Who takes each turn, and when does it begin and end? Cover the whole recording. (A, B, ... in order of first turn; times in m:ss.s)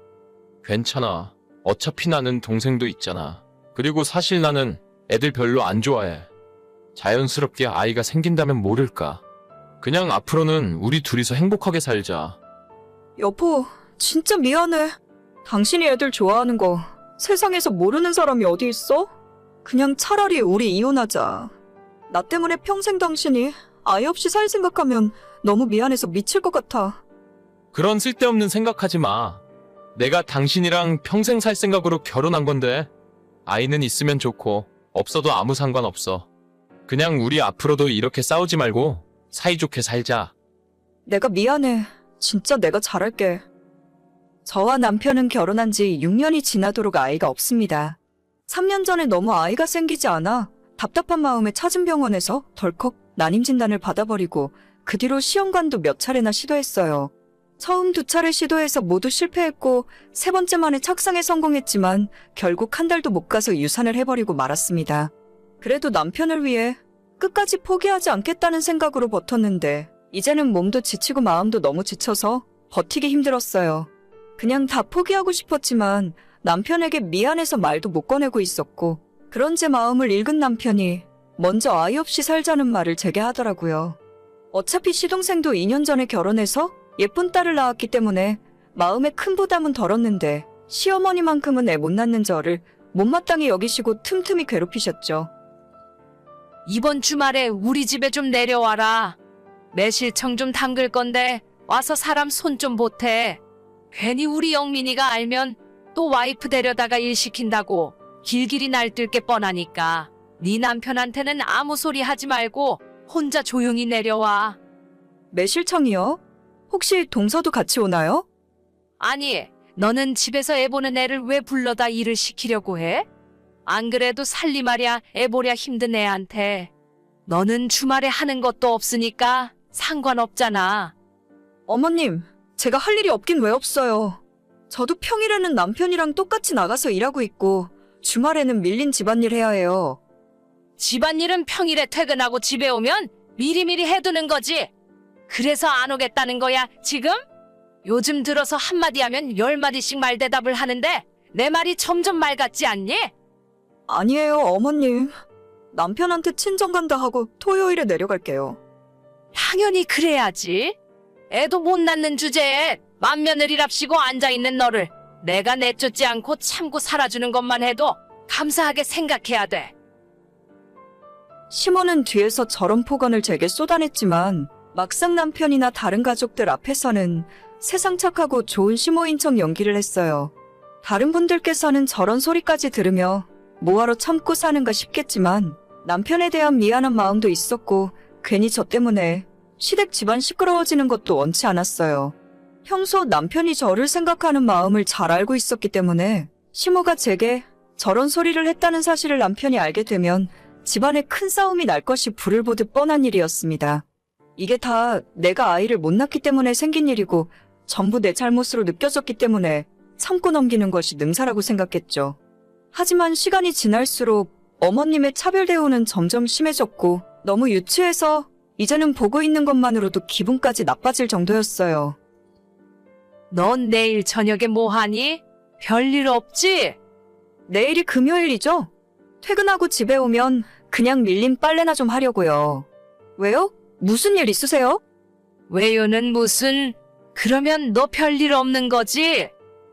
0:00.6-0:06.3 A
0:07.0-0:09.2 A
0:09.8-0:12.4 A
0:13.2-0:19.1 B
0:19.6-0:21.5 B
0:22.1-0:27.0 B
0:27.7-0:29.4 A
0:30.0-0:32.9 A
0:33.4-0:36.3 A
0:36.9-0:40.3 A
0:41.0-0:43.4 B
0:44.4-1:24.0 B
1:24.5-1:35.3 B
1:36.6-1:39.2 C
1:39.7-1:43.4 C
1:43.9-1:54.6 C
1:55.3-1:58.2 B
1:59.0-2:03.1 C
2:03.6-2:06.7 C
2:07.3-2:10.9 C
2:11.7-2:20.0 B
2:20.8-2:24.7 C
2:25.3-2:27.2 C
2:27.8-2:33.1 C
2:33.9-2:35.1 B
2:35.7-2:38.6 B
2:39.3-2:40.8 C
2:41.3-2:49.7 C
2:51.5-3:12.1 B
3:12.6-3:23.8 B
3:24.4-3:32.2 B
3:32.7-3:42.0 B
3:43.3-3:46.8 C
3:47.5-3:48.7 B
3:49.2-3:54.8 B
3:55.5-3:59.3 C